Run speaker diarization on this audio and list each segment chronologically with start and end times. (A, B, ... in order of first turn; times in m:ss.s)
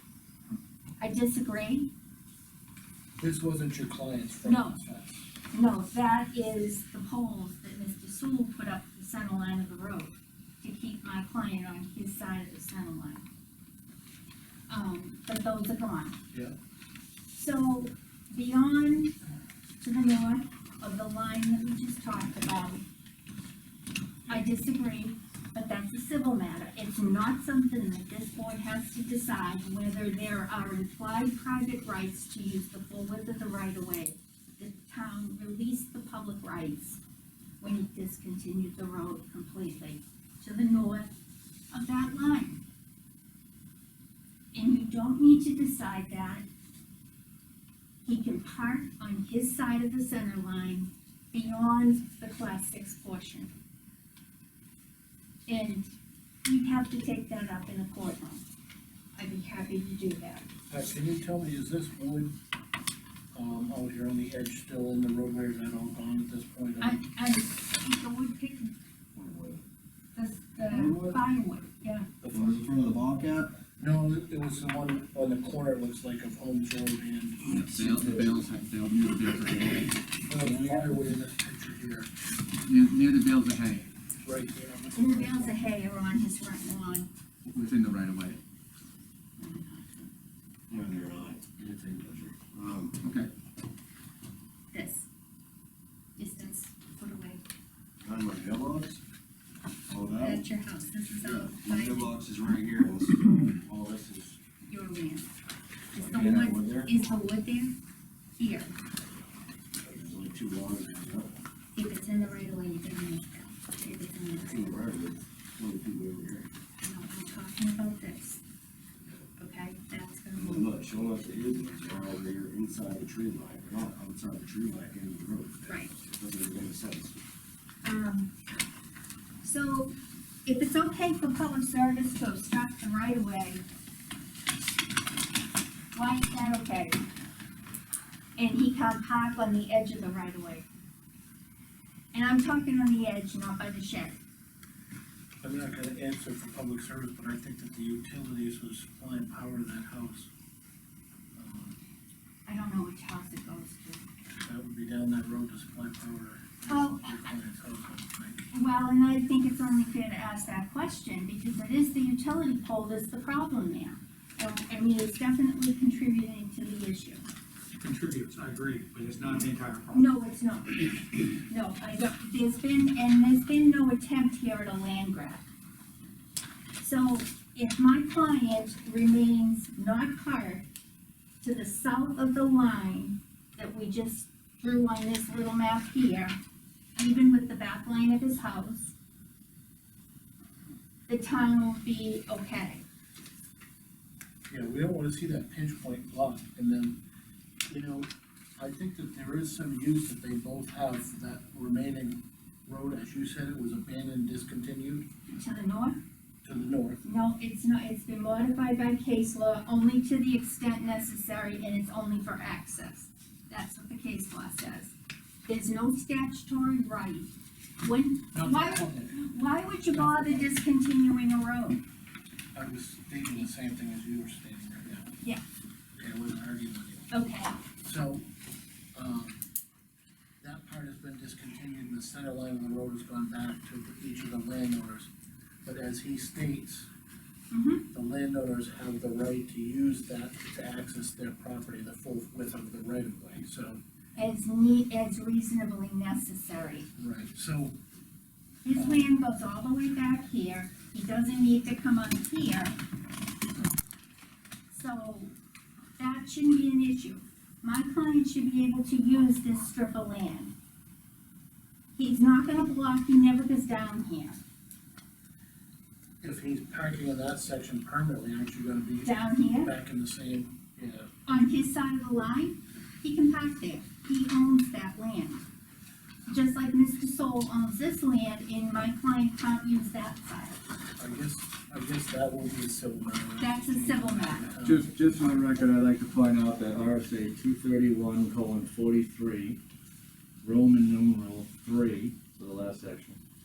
0:01.0-0:01.9 A
0:03.2-0:05.2 B
0:04.4-0:04.8 A
0:05.5-0:13.2 A
0:14.7-0:16.2 A
0:17.3-0:19.1 A
0:19.8-0:22.8 A
0:24.3-0:37.0 A
0:37.6-0:41.1 A
0:41.7-0:42.6 A
0:44.5-0:46.5 A
0:48.0-0:53.5 A
0:55.5-0:55.9 A
0:56.4-0:58.4 A
0:59.2-1:00.4 A
1:00.7-1:02.4 B
1:03.3-1:07.0 B
1:06.8-1:08.7 A
1:09.2-1:09.6 C
1:10.2-1:12.1 A
1:10.7-1:11.2 C
1:12.2-1:12.7 B
1:12.3-1:13.6 C
1:13.8-1:17.6 B
1:17.5-1:20.0 D
1:20.2-1:22.1 B
1:22.7-1:23.9 D
1:24.2-1:25.6 B
1:25.0-1:27.1 A
1:27.5-1:28.4 D
1:29.4-1:30.1 A
1:30.7-1:33.0 C
1:33.0-1:33.3 D
1:34.7-1:35.1 A
1:36.2-1:37.4 A
1:38.0-1:39.0 C
1:39.9-1:40.4 C
1:40.2-1:42.1 A
1:41.2-1:44.4 C
1:44.7-1:45.3 A
1:45.9-1:47.8 A
1:46.0-1:46.9 C
1:48.4-1:48.7 A
1:49.9-1:51.3 C
1:51.7-1:54.8 A
1:54.4-1:56.5 C
1:56.8-1:58.4 A
1:59.4-2:00.7 A
2:00.3-2:07.2 C
2:05.7-2:05.9 A
2:07.8-2:08.3 A
2:09.4-2:13.6 A
2:15.9-2:17.0 A
2:18.4-2:20.6 A
2:22.1-2:24.2 A
2:25.4-2:30.3 B
2:31.4-2:31.8 B
2:32.5-2:34.0 A
2:34.4-2:38.5 B
2:36.7-2:37.3 A
2:38.5-2:47.2 A
2:47.8-2:50.0 E
2:49.9-2:55.4 A
2:56.8-3:00.6 A
3:01.4-3:06.4 A
3:07.0-3:09.0 A
3:11.1-3:12.8 A
3:14.5-3:17.0 B
3:17.7-3:25.1 B
3:25.3-3:26.0 A
3:26.4-3:27.0 B
3:27.0-3:34.9 A
3:35.5-3:41.8 A
3:38.3-3:39.2 B
3:39.9-3:40.6 B
3:42.5-3:45.1 B
3:46.0-3:47.1 B
3:47.1-3:47.6 A
3:47.8-3:48.3 B
3:49.0-3:49.4 B
3:50.4-3:55.1 B
3:55.6-3:56.9 B
3:57.5-3:57.9 A
3:57.9-4:03.8 B
4:04.2-4:06.9 A
4:07.0-4:07.8 B
4:08.6-4:12.8 A
4:08.8-4:09.1 B
4:14.7-4:15.3 A
4:16.0-4:20.5 A
4:22.0-4:24.4 A
4:26.2-4:31.1 B
4:29.0-4:29.7 A
4:31.3-4:35.4 A
4:36.3-4:40.6 A
4:41.0-4:45.0 B
4:43.4-4:44.5 A
4:44.6-4:49.6 F
4:50.4-4:53.2 F